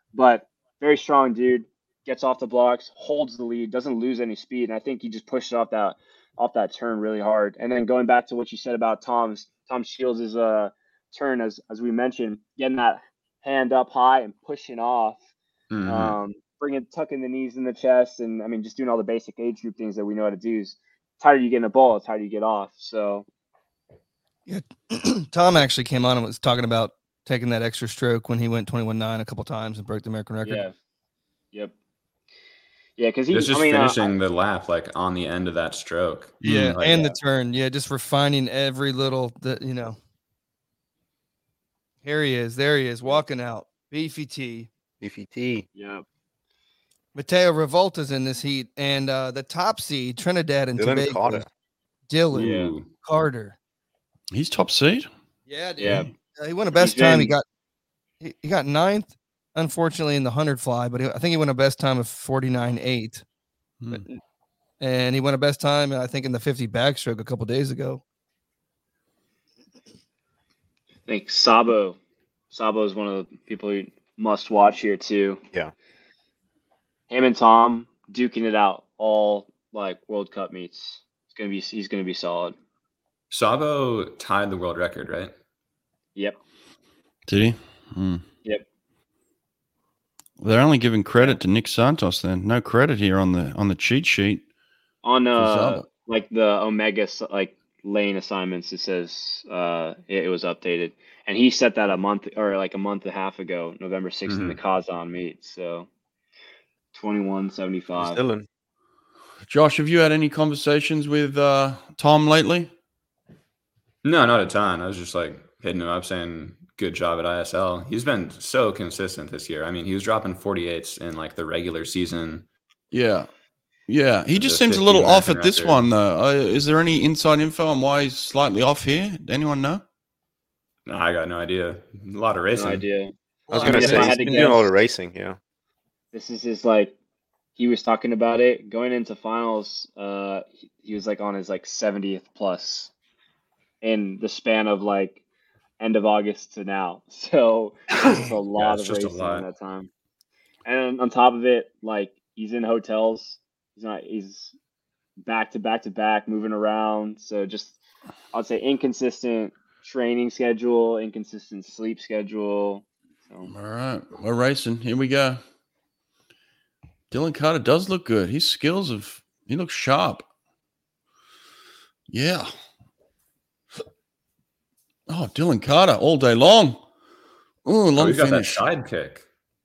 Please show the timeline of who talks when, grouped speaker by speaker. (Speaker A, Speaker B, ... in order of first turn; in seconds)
Speaker A: 0.1-15.2, 15.9-23.3, 30.4-30.7, 33.0-34.1, 45.8-46.0, 52.3-52.8, 55.8-56.1, 56.7-57.4, 71.1-72.0, 72.5-75.4, 77.1-82.5, 95.0-105.9, 106.9-108.2, 132.5-134.7, 136.1-136.9, 137.6-142.9, 143.8-145.2, 145.8-149.9, 150.7-154.5, 155.2-157.8, 158.3-163.5
Speaker B: 15.7-16.2, 33.3-37.2, 52.3-52.9, 83.3-85.3, 104.3-104.6, 114.0-122.5, 124.4-125.9, 130.9-132.8, 148.6-149.5, 178.0-179.2
Speaker C: 24.5-30.7, 36.5-40.0, 42.0-44.7, 47.1-51.5, 52.1-53.6, 55.5-57.4, 58.2-63.2, 64.8-68.0, 133.5-134.7
Speaker D: 36.4-36.8, 54.3-55.1, 87.3-88.2, 90.4-94.4, 95.4-95.9, 109.5-112.7, 122.9-123.3, 123.9-129.8, 163.5-165.4, 167.1-170.3, 172.1-172.5, 175.1-176.8, 177.7-178.6
Speaker E: 45.0-45.7, 50.8-51.5, 108.0-108.5, 133.5-135.4